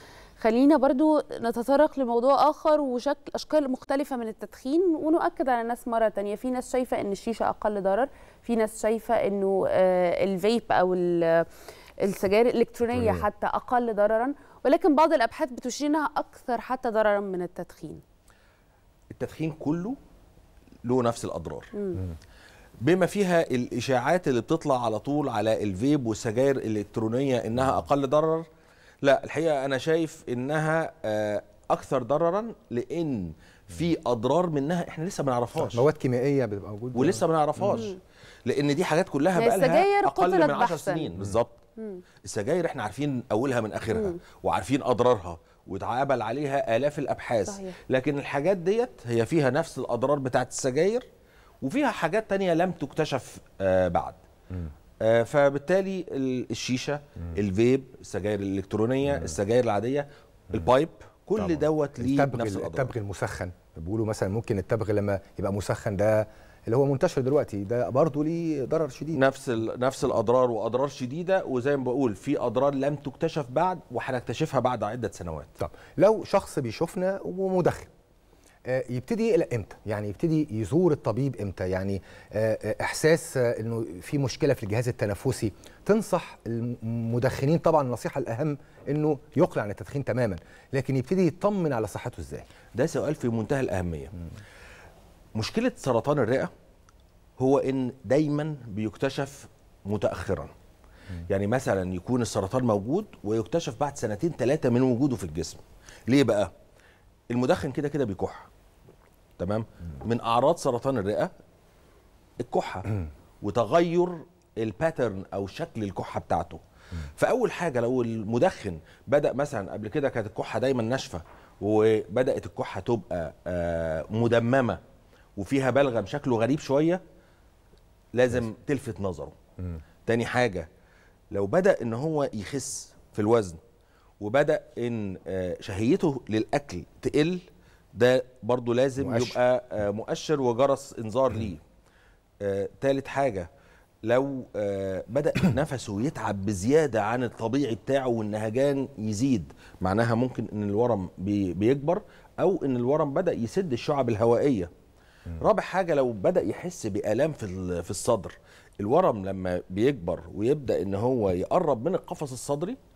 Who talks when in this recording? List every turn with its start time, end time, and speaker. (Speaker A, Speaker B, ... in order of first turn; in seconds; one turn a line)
Speaker A: 0.4-11.4
Speaker A: 12.0-18.0
Speaker B: 19.1-20.0
Speaker B: 20.8-21.7
Speaker A: 21.7-22.0
Speaker B: 22.8-28.4
Speaker B: 29.0-35.9
Speaker C: 35.6-37.8
Speaker B: 36.9-37.9
Speaker A: 37.7-38.0
Speaker B: 38.5-41.6
Speaker A: 39.3-41.1
Speaker B: 42.2-51.0
Speaker A: 47.5-47.7
Speaker B: 51.6-54.2
Speaker B: 55.0-62.9
Speaker C: 61.4-69.2
Speaker B: 69.1-75.5
Speaker C: 75.6-77.9
Speaker C: 78.7-92.5
Speaker B: 92.7-94.1
Speaker B: 95.3-96.5
Speaker B: 97.4-100.5
Speaker B: 101.3-106.5
Speaker B: 107.3-108.5
Speaker B: 109.4-111.3
Speaker B: 112.4-116.6
Speaker B: 117.2-124.8
Speaker B: 125.4-127.0
Speaker B: 128.1-129.3
Speaker B: 130.1-130.7
Speaker B: 131.3-133.6
Speaker B: 134.2-141.6
Speaker C: 139.0-139.4
Speaker B: 142.4-143.5
Speaker B: 144.0-154.7
Speaker B: 155.4-162.8